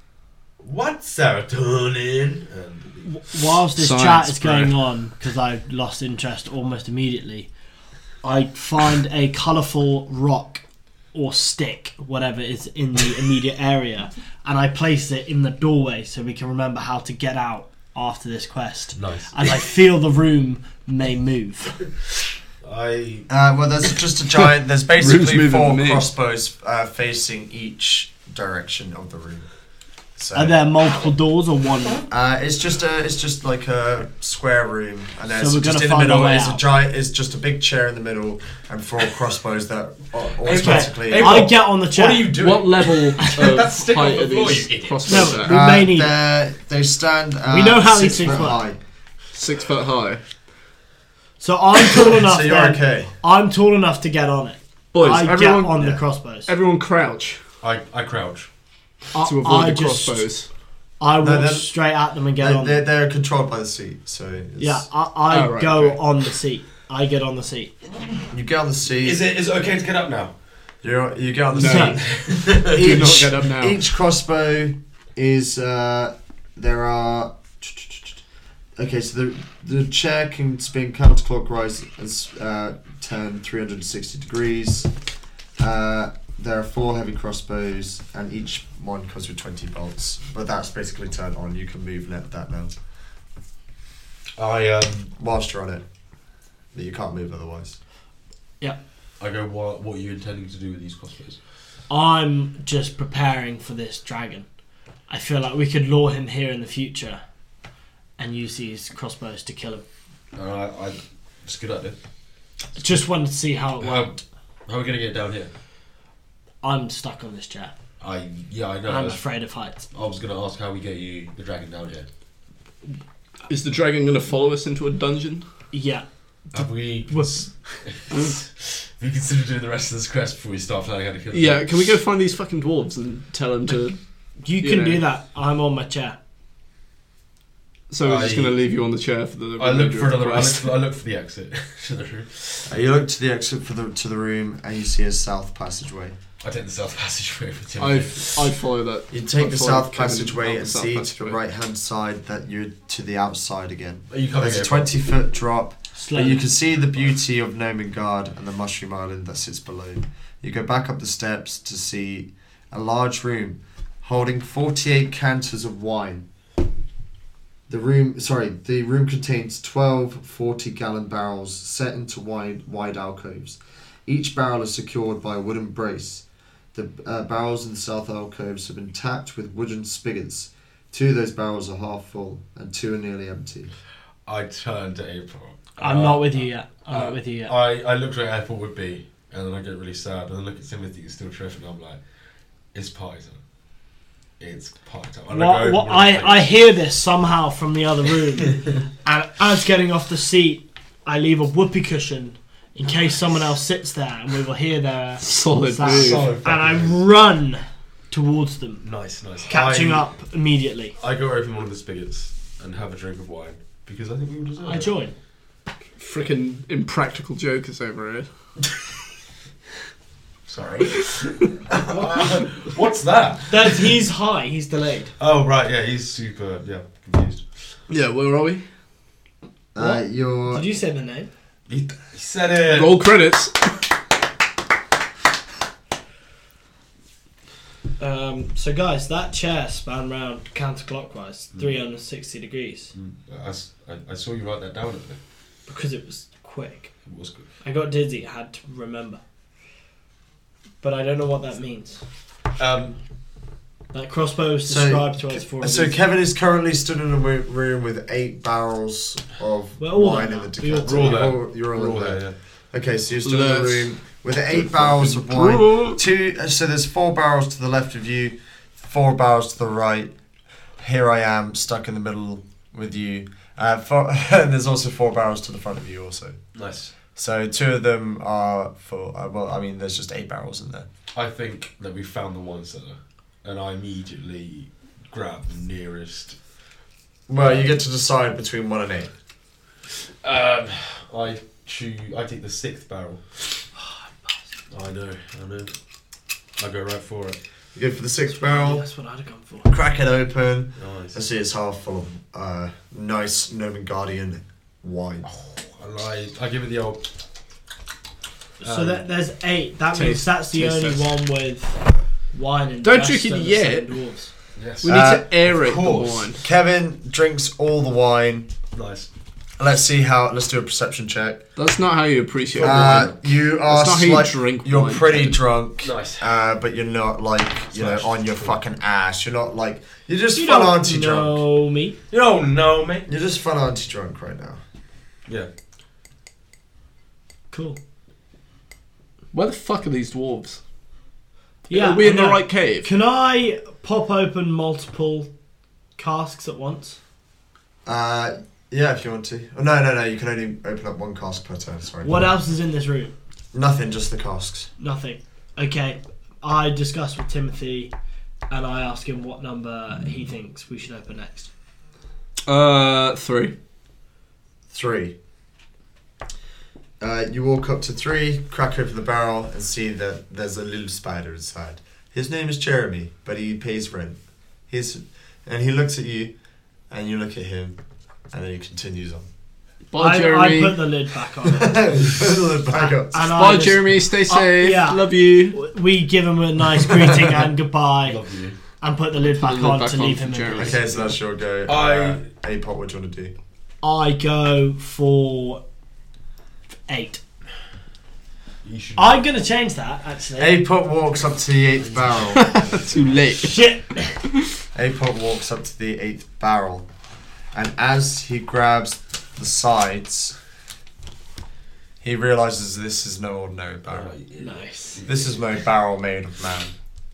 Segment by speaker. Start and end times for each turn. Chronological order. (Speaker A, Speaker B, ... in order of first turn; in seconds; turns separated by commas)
Speaker A: 0.6-3.1, Speaker B: 3.0-7.5, Speaker C: 3.8-4.7, Speaker B: 8.2-10.6, Speaker B: 11.1-21.9, Speaker A: 18.9-19.4, Speaker A: 22.6-23.3, Speaker D: 23.3-29.4, Speaker C: 25.0-26.1, Speaker D: 30.2-30.6, Speaker B: 30.4-32.0, Speaker D: 32.1-41.5, Speaker B: 35.4-36.6, Speaker A: 40.4-45.4, Speaker B: 40.5-42.4, Speaker C: 42.3-45.6, Speaker B: 43.2-43.5, Speaker B: 45.1-46.1, Speaker D: 45.5-48.8, Speaker B: 47.5-48.6, Speaker C: 49.3-50.2, Speaker B: 51.4-56.5, Speaker D: 52.1-53.1, Speaker C: 54.9-55.9, Speaker C: 56.4-57.4, Speaker A: 57.6-58.5, Speaker B: 59.1-60.3, Speaker C: 59.2-60.5, Speaker B: 61.0-62.8, Speaker D: 61.2-61.7, Speaker D: 62.4-64.8, Speaker B: 64.6-67.7, Speaker C: 65.3-66.0, Speaker D: 68.3-69.2, Speaker A: 69.0-70.3, Speaker D: 70.8-78.2, Speaker C: 71.5-73.8, Speaker B: 71.6-72.0, Speaker A: 72.0-73.0, Speaker D: 78.8-84.9, Speaker D: 85.6-92.7, Speaker A: 94.4-95.1, Speaker D: 95.2-95.8, Speaker D: 96.7-97.8, Speaker A: 99.2-101.4, Speaker B: 101.9-104.5, Speaker B: 105.1-107.2, Speaker B: 108.2-109.8, Speaker A: 110.3-112.0, Speaker B: 112.8-114.2, Speaker A: 113.8-115.5, Speaker B: 116.6-117.7, Speaker A: 118.0-119.2, Speaker B: 118.9-119.9, Speaker A: 119.9-122.1, Speaker C: 123.5-125.5, Speaker B: 125.7-127.4, Speaker A: 126.5-131.7, Speaker C: 131.3-134.0, Speaker B: 134.4-136.2, Speaker C: 134.6-135.0, Speaker C: 137.9-140.7, Speaker A: 138.0-138.6, Speaker A: 139.6-142.7, Speaker D: 142.7-146.2, Speaker A: 146.4-148.4, Speaker C: 147.8-151.4, Speaker D: 149.1-166.3, Speaker A: 154.1-154.9, Speaker B: 155.9-156.5, Speaker D: 167.7-183.7, Speaker A: 184.2-192.0, Speaker B: 185.8-187.6, Speaker A: 192.7-193.4, Speaker A: 194.4-196.5, Speaker B: 195.3-208.8, Speaker A: 198.4-198.7, Speaker C: 205.2-206.3, Speaker A: 205.8-207.0, Speaker A: 208.8-210.1, Speaker B: 209.5-210.9, Speaker A: 211.0-214.9, Speaker B: 214.6-215.1, Speaker C: 216.0-218.3, Speaker A: 220.5-223.9, Speaker B: 223.5-225.1, Speaker A: 225.2-227.4, Speaker C: 227.9-228.6, Speaker D: 229.7-230.7, Speaker B: 229.8-231.3, Speaker A: 231.7-232.9, Speaker C: 232.7-233.6, Speaker B: 238.0-242.9, Speaker A: 242.9-245.2, Speaker B: 245.7-246.9, Speaker A: 247.1-247.5, Speaker B: 247.6-249.2, Speaker B: 250.8-252.0, Speaker A: 252.6-253.0, Speaker B: 253.9-256.0, Speaker D: 254.7-270.1, Speaker B: 259.8-261.3, Speaker A: 260.8-262.4, Speaker C: 263.2-263.9, Speaker C: 264.5-266.0, Speaker D: 270.8-276.4, Speaker A: 276.5-276.9, Speaker D: 277.1-280.9, Speaker A: 281.1-286.4, Speaker D: 287.3-289.1, Speaker A: 287.4-287.8, Speaker A: 290.2-293.2, Speaker B: 293.8-294.3, Speaker A: 294.7-295.7, Speaker A: 296.6-297.4, Speaker D: 297.7-298.8, Speaker B: 298.3-299.7, Speaker D: 299.7-305.3, Speaker A: 300.8-301.2, Speaker A: 305.3-307.1, Speaker A: 308.6-309.1, Speaker B: 308.6-311.8, Speaker C: 309.9-311.0, Speaker B: 312.3-314.3, Speaker C: 312.8-314.0, Speaker A: 314.6-316.3, Speaker C: 314.8-316.4, Speaker D: 314.9-315.3, Speaker D: 316.4-318.5, Speaker A: 318.7-319.1, Speaker D: 319.6-321.4, Speaker C: 321.6-325.4, Speaker A: 322.5-323.2, Speaker D: 322.6-331.4, Speaker A: 325.8-326.3, Speaker A: 327.7-328.6, Speaker B: 330.4-332.0, Speaker A: 332.1-333.1, Speaker D: 333.1-334.6, Speaker B: 337.5-337.8, Speaker C: 339.3-340.6, Speaker C: 341.7-342.9, Speaker B: 341.7-345.3, Speaker B: 346.0-347.0, Speaker D: 347.9-352.3, Speaker B: 352.0-353.1, Speaker D: 353.5-354.7, Speaker B: 354.8-357.9, Speaker B: 358.5-361.5, Speaker C: 362.4-363.5, Speaker D: 364.7-365.1, Speaker D: 367.0-374.2, Speaker D: 374.7-376.3, Speaker D: 376.9-377.8, Speaker D: 378.3-379.3, Speaker C: 379.9-380.9, Speaker B: 380.0-381.8, Speaker D: 381.4-383.3, Speaker B: 382.7-388.2, Speaker C: 383.3-385.6, Speaker A: 388.0-388.6, Speaker B: 388.8-391.1, Speaker C: 389.2-390.8, Speaker D: 390.6-393.3, Speaker A: 391.7-392.2, Speaker B: 393.8-395.6, Speaker B: 396.9-397.2, Speaker A: 398.6-399.3, Speaker B: 398.9-400.6, Speaker D: 400.4-402.8, Speaker C: 402.3-403.7, Speaker B: 403.4-404.2, Speaker D: 404.7-406.9, Speaker D: 407.5-410.4, Speaker D: 412.0-414.1, Speaker A: 413.9-415.4, Speaker B: 414.4-415.0, Speaker D: 415.1-416.7